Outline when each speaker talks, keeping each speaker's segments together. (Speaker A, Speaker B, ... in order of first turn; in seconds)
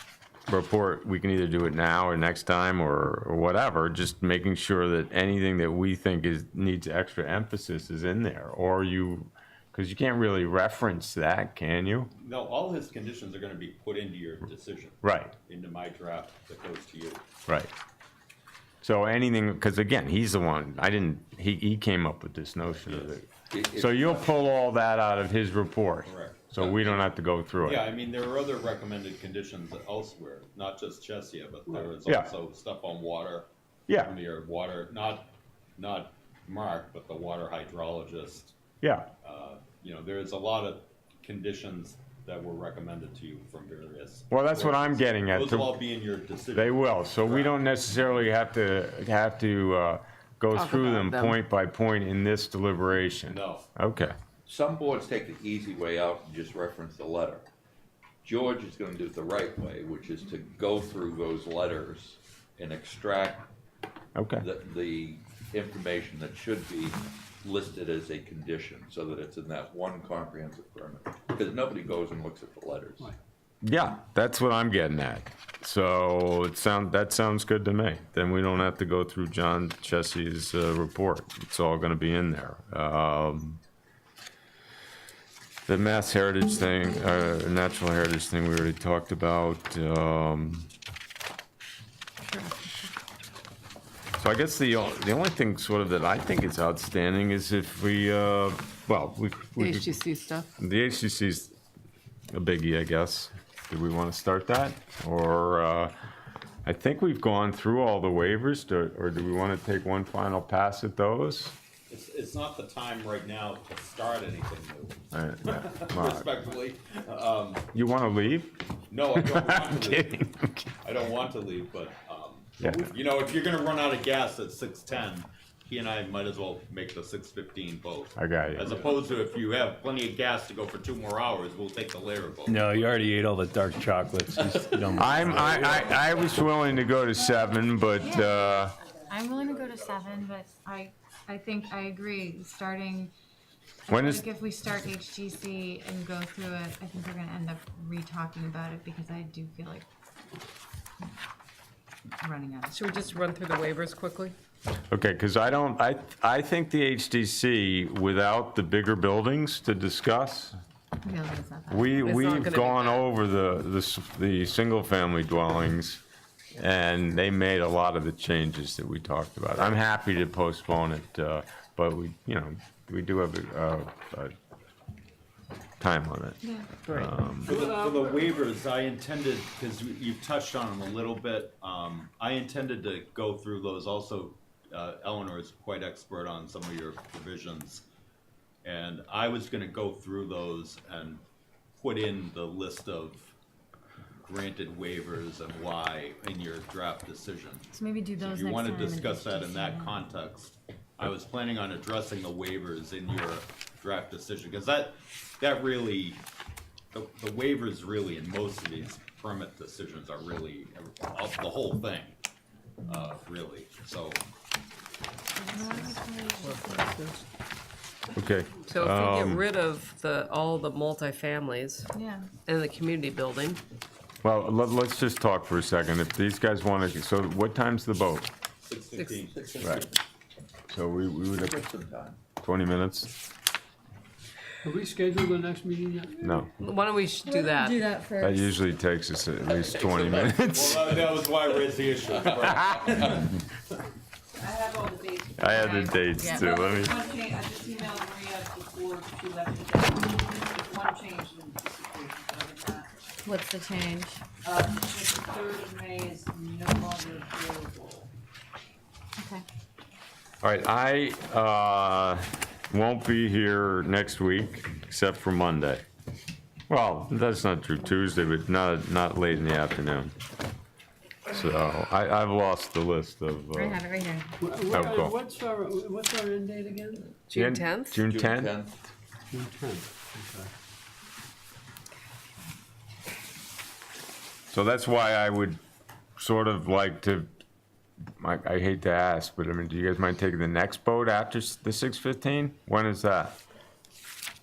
Speaker A: 0.5-12.1, 15.0-15.3, 18.8-27.9, 38.8-39.1, 44.3-45.7, 46.5-54.1, 64.1-64.4, 73.6-83.6, 85.7-90.7, 94.2-99.9, 100.6-101.5, 102.3-105.9, 106.6-111.5, 115.1-116.2, 117.7-118.6, 119.3-120.6, 122.6-122.9, 128.2-128.8, 134.9-138.8, 143.9-144.2, 154.9-160.6, 161.7-166.0, 166.6-174.3, 175.8-177.5, 218.1-219.4, 224.2-228.3, 230.7-231.6, 232.4-233.1, 236.2-236.5, 238.2-240.9, 245.4-246.9, 260.4-265.8, 266.7-270.1, 271.3-273.8, 274.7-275.1, 277.3-278.5, 284.5-285.6, 286.2-287.3, 288.2-293.4
Speaker B: 12.2-17.2, 26.0-27.1, 27.6-38.5, 39.2-47.6, 53.3-53.6, 111.9-117.6, 118.9-132.6, 135.5-135.8, 177.4-187.8, 188.6-191.2, 191.8-193.3, 194.2-197.7, 198.2-206.2, 206.9-212.1, 212.8-214.2, 228.6-229.8, 240.0-243.3
Speaker C: 23.5-24.3, 54.5-57.5, 58.2-63.5, 64.4-73.1, 229.3-229.9, 231.3-232.2, 239.5-240.9, 242.1-243.2, 278.1-278.8
Speaker D: 50.5-51.4, 99.6-100.5, 152.7-154.3, 162.0-163.1, 216.4-217.2, 218.6-221.9, 222.4-223.6, 228.9-229.2, 236.6-237.8, 277.3-278.0
Speaker E: 132.4-136.4
Speaker F: 138.0-138.4, 139.1-143.1, 143.9-149.8, 152.2-152.8, 161.0-162.0, 176.4-176.7, 197.7-200.0, 215.4-216.8, 221.9-222.3, 237.2-238.5, 246.1-247.0, 253.2-254.2, 259.2-259.4, 273.5-274.3
Speaker G: 177.4-178.5, 234.6-236.4, 274.4-277.2, 279.3-280.5
Speaker H: 244.4-252.9, 254.4-258.1